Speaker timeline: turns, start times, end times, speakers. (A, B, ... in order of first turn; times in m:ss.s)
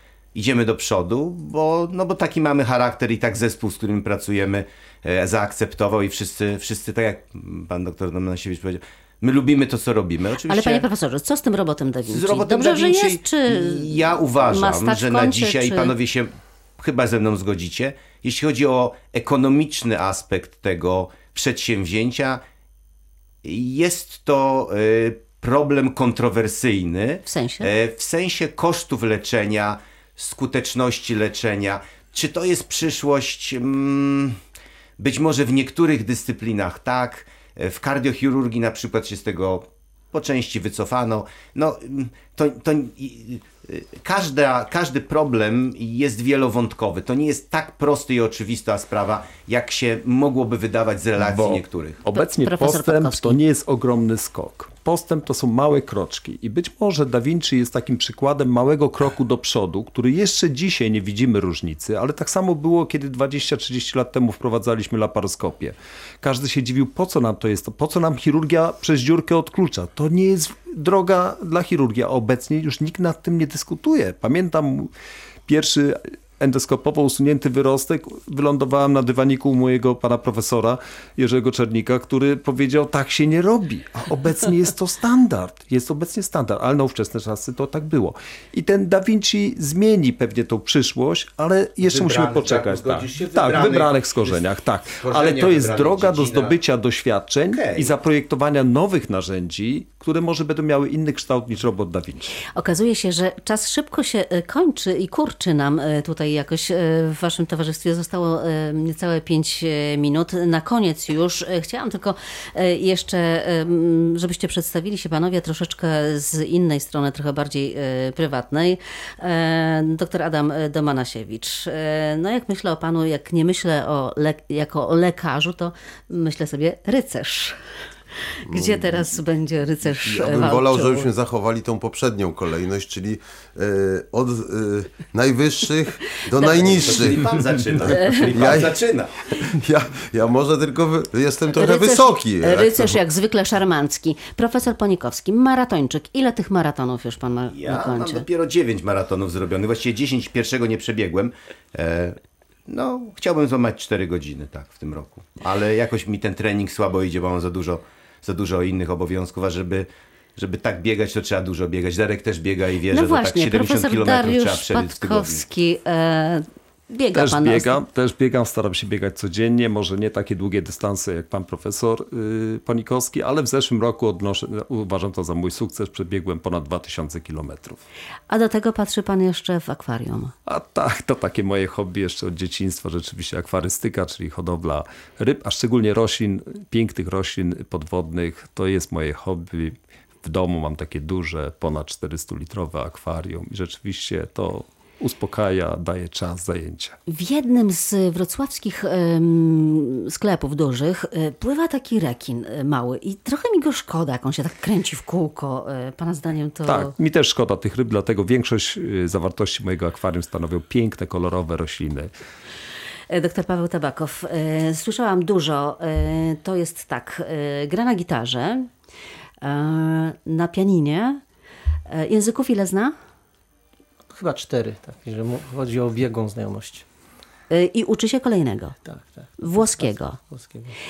0:00.3-0:10.8 A
0:10.5-0:15.9 B
0:12.1-0:22.4 A
0:23.4-0:34.4 A
0:27.3-0:27.7 B
0:35.0-0:52.0 A
0:51.2-1:14.9 C
0:52.1-0:53.4 B
1:15.5-1:42.4 C
1:31.8-1:34.4 A
1:35.0-1:36.6 A
1:37.5-1:37.9 A
1:42.6-2:07.6 B
2:08.4-2:11.1 B
2:08.5-2:09.2 D
2:09.9-2:18.8 D
2:16.3-2:16.8 B
2:16.4-2:19.2 A
2:17.8-2:18.3 B
2:19.4-2:23.0 D
2:21.5-2:28.2 B
2:27.5-2:45.4 A
2:42.9-2:47.8 B
2:47.1-2:57.8 C
2:58.3-3:00.3 B
3:00.5-3:17.0 C
3:17.1-3:26.9 B
3:26.6-3:32.1 C
3:33.1-3:38.7 B
3:39.4-3:41.2 B
3:41.9-3:42.9 B
3:44.1-3:46.8 E
3:47.5-3:48.8 B
3:48.8-3:50.8 E
3:49.4-3:50.2 B